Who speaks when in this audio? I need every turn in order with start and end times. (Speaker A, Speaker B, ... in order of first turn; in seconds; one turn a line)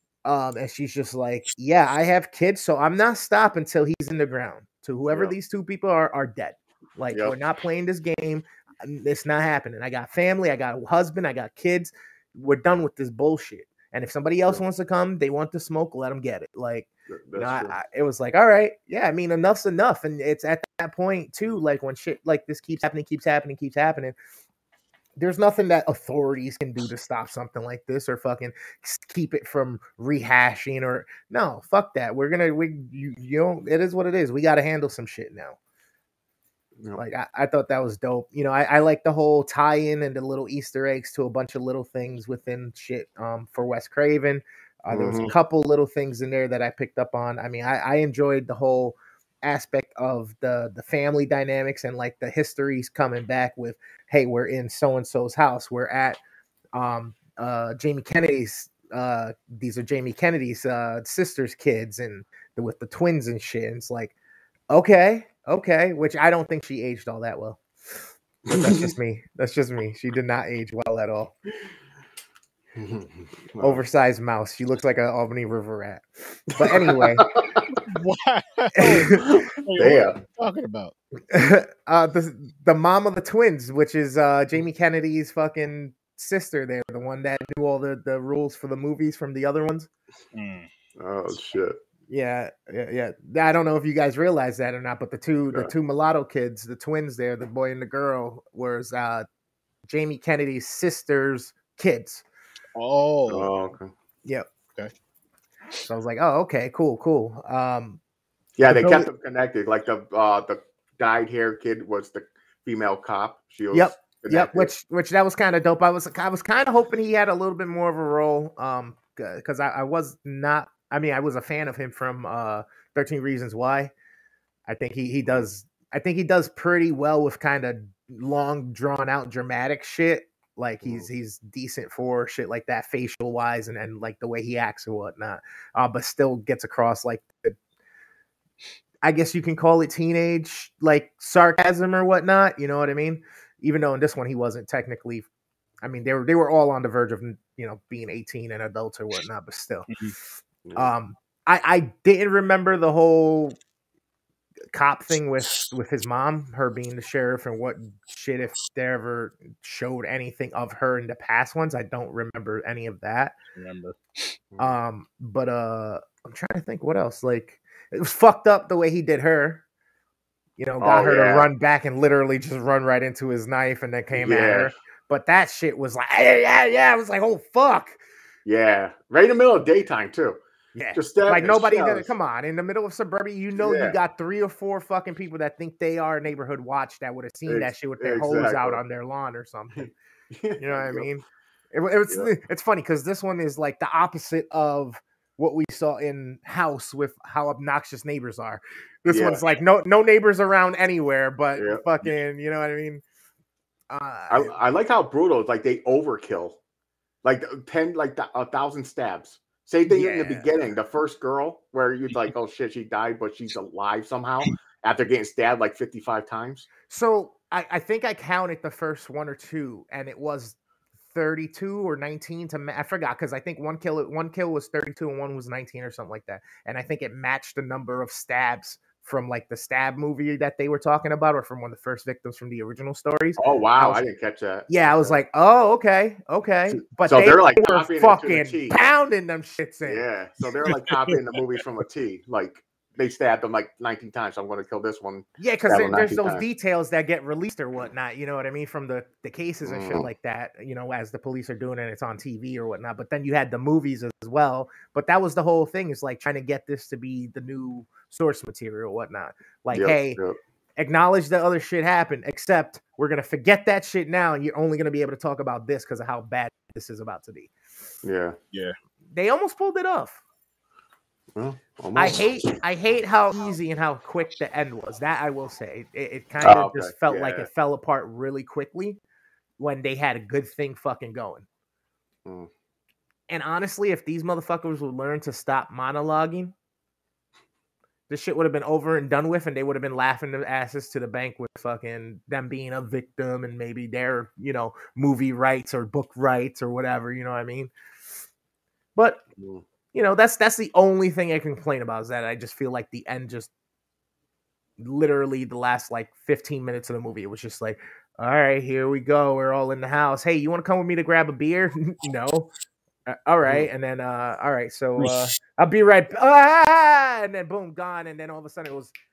Speaker A: 0.2-24.2
Speaker B: 17.1-17.8
Speaker A: 25.2-35.6
Speaker A: 37.0-56.2
Speaker B: 44.9-45.3
Speaker A: 56.7-64.1
Speaker A: 64.7-67.6
Speaker B: 68.5-68.9
Speaker A: 68.5-71.3
Speaker B: 72.8-73.8
Speaker A: 73.6-77.3
Speaker B: 76.6-77.8
Speaker C: 77.9-80.9
Speaker A: 78.8-79.3
Speaker B: 79.2-80.2
Speaker A: 81.3-89.9
Speaker C: 90.3-90.7
Speaker B: 91.0-91.8
Speaker A: 92.1-99.3
Speaker A: 99.9-102.2
Speaker C: 102.8-103.5
Speaker B: 103.3-103.9
Speaker A: 105.8-108.0
Speaker B: 108.6-114.7
Speaker A: 108.7-109.1
Speaker A: 113.7-123.9
Speaker A: 124.7-137.6
Speaker B: 130.8-131.1
Speaker A: 139.0-145.3
Speaker A: 145.8-149.9
Speaker B: 150.7-150.9
Speaker A: 150.8-153.6
Speaker A: 154.7-163.4
Speaker C: 163.6-164.3
Speaker B: 164.5-164.8
Speaker A: 164.6-169.6
Speaker A: 170.6-178.0
Speaker B: 170.8-171.5
Speaker B: 174.1-174.7
Speaker B: 178.5-180.4
Speaker A: 180.8-189.9
Speaker B: 180.9-182.1
Speaker B: 183.6-184.0
Speaker B: 187.5-188.8
Speaker B: 189.7-191.1
Speaker A: 190.6-203.0
Speaker B: 199.1-199.4
Speaker B: 201.6-201.8
Speaker A: 203.9-204.5
Speaker B: 204.3-206.6
Speaker B: 207.2-216.7
Speaker A: 209.9-210.5
Speaker A: 216.9-220.6
Speaker A: 221.1-234.0
Speaker B: 233.4-235.2
Speaker A: 234.7-240.1
Speaker B: 236.7-238.8
Speaker B: 239.8-246.4
Speaker C: 240.9-241.2
Speaker A: 245.4-260.2
Speaker B: 249.7-250.1
Speaker B: 259.7-260.4
Speaker A: 260.8-267.5
Speaker B: 268.0-268.4
Speaker A: 269.1-270.2
Speaker B: 271.4-272.5
Speaker A: 272.0-279.0
Speaker B: 276.4-277.5
Speaker A: 279.6-281.5
Speaker A: 283.3-286.5
Speaker A: 288.1-297.7
Speaker A: 298.9-299.2
Speaker B: 299.4-299.6
Speaker A: 299.9-303.5
Speaker A: 304.8-312.5
Speaker A: 313.1-318.9